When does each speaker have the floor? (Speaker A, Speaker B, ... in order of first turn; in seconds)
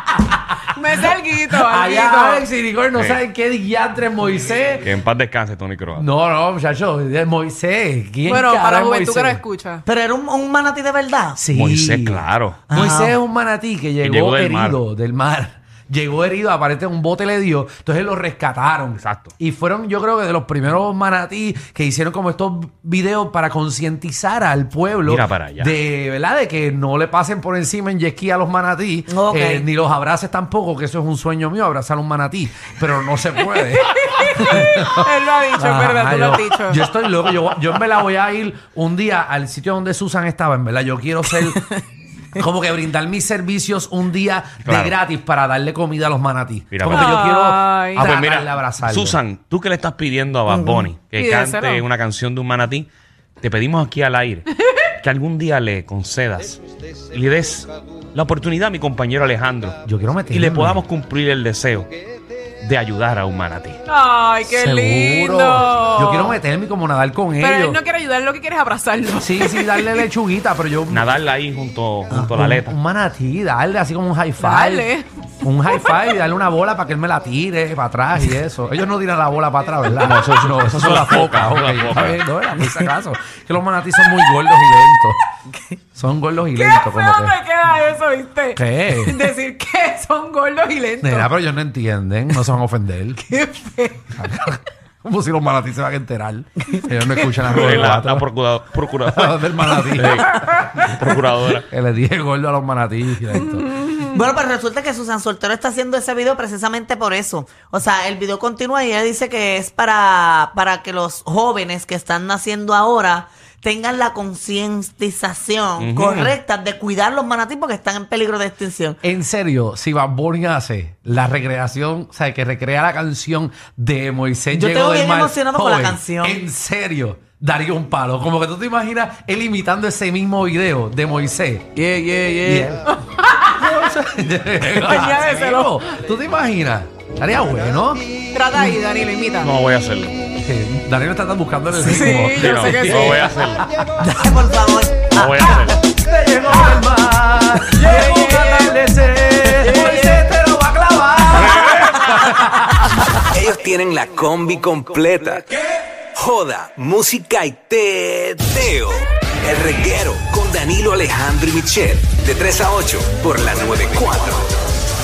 Speaker A: 0.7-2.4, 8.2-9.8, 33.7-36.8, 46.9-48.1, 51.1-51.9, 63.9-66.4, 67.4-70.0, 74.4-75.1, 86.5-91.3, 93.2-94.2, 100.4-100.8, 132.9-133.5, 134.6-135.7, 138.3-139.5, 141.7-143.4, 147.8-148.8, 149.6-150.1
Speaker B: 1.5-4.9, 5.9-9.4, 11.3-35.0, 35.5-41.6, 42.3-49.2, 59.8-60.8, 64.5-67.8, 69.2-71.1, 72.2-74.9, 75.4-85.2, 85.9-87.3, 88.5-89.3, 91.0-93.2, 94.2-98.2, 99.0-100.6, 101.6-103.7, 119.0-131.8, 132.4-132.8, 133.6-138.0, 140.4-143.8, 145.5-152.8
Speaker C: 2.9-3.2, 4.8-6.1, 11.5-12.9, 14.0-14.8, 19.0-19.3, 25.0-25.7, 44.6-44.9, 46.7-47.2, 48.0-52.9, 53.4-54.5, 55.0-56.6, 57.1-59.8, 60.3-61.9, 62.6-63.8, 70.9-72.8, 80.0-82.9, 97.4-101.7, 115.8-116.3, 131.8-132.7, 139.4-140.2, 142.3-143.6, 145.1-145.8, 151.3-152.4
Speaker D: 9.8-11.4, 12.7-13.2, 29.1-29.7, 50.5-50.9, 103.7-119.0, 124.5-126.4, 144.0-145.5
Speaker E: 153.3-155.6, 156.1-164.5